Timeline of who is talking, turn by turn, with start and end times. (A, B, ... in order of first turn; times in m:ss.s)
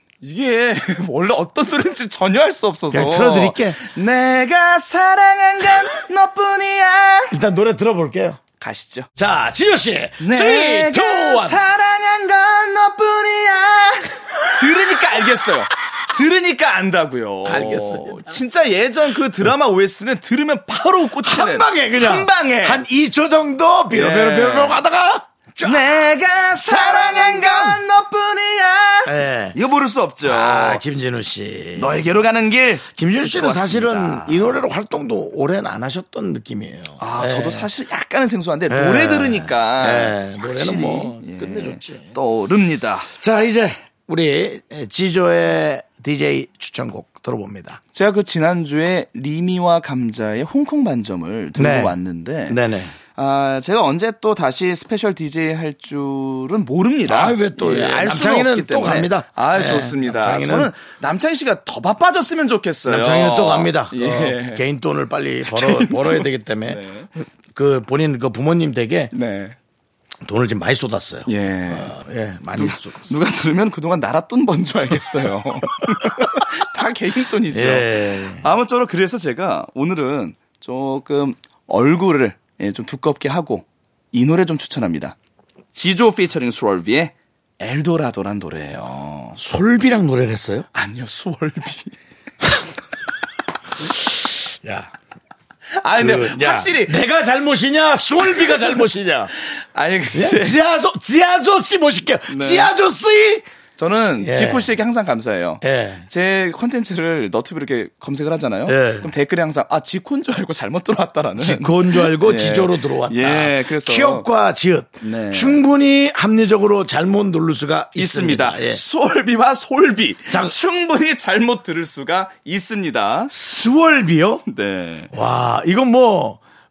0:00.2-0:07.4 A
0:02.9-0:03.8 B
0:07.3-0:08.4 B
0:08.6-0:09.1 A
0:09.2-0:11.6 B
0:10.2-0:22.8 A
0:17.4-0:18.3 B
0:21.2-0:26.0 B
0:23.9-0:24.8 A
0:25.6-0:30.8 A
0:26.5-0:27.8 B
0:29.1-0:29.6 B
0:30.2-0:32.0 B
0:31.8-0:34.6 A
0:32.9-0:37.7 B
0:37.0-0:43.1 A
0:38.7-0:42.1 B
0:43.2-0:47.8 B
0:47.9-0:52.6 A
0:51.6-0:52.9 B
0:53.2-1:04.6 A
0:57.1-1:00.7 B
1:02.9-1:06.8 B
1:05.5-1:07.1 A
1:07.5-1:09.1 B
1:09.1-1:09.6 A
1:10.2-1:13.1 B
1:11.3-1:12.0 A
1:12.6-1:25.2 A
1:17.5-1:18.5 B
1:25.7-1:29.4 A
1:29.4-1:30.7 B
1:30.7-1:32.0 A
1:33.9-1:34.9 B
1:35.7-1:37.0 A
1:36.0-1:39.3 B
1:39.4-1:40.6 A
1:40.1-1:43.5 B
1:42.3-1:42.7 A
1:43.8-1:54.3 A
1:44.2-1:44.7 B
1:45.6-1:46.1 B
1:48.7-1:49.1 B
1:51.4-1:58.8 B
1:55.0-1:55.6 A
1:58.0-2:03.3 A
2:00.3-2:00.6 B
2:03.3-2:04.4 B
2:04.5-2:05.1 A
2:05.1-2:06.4 B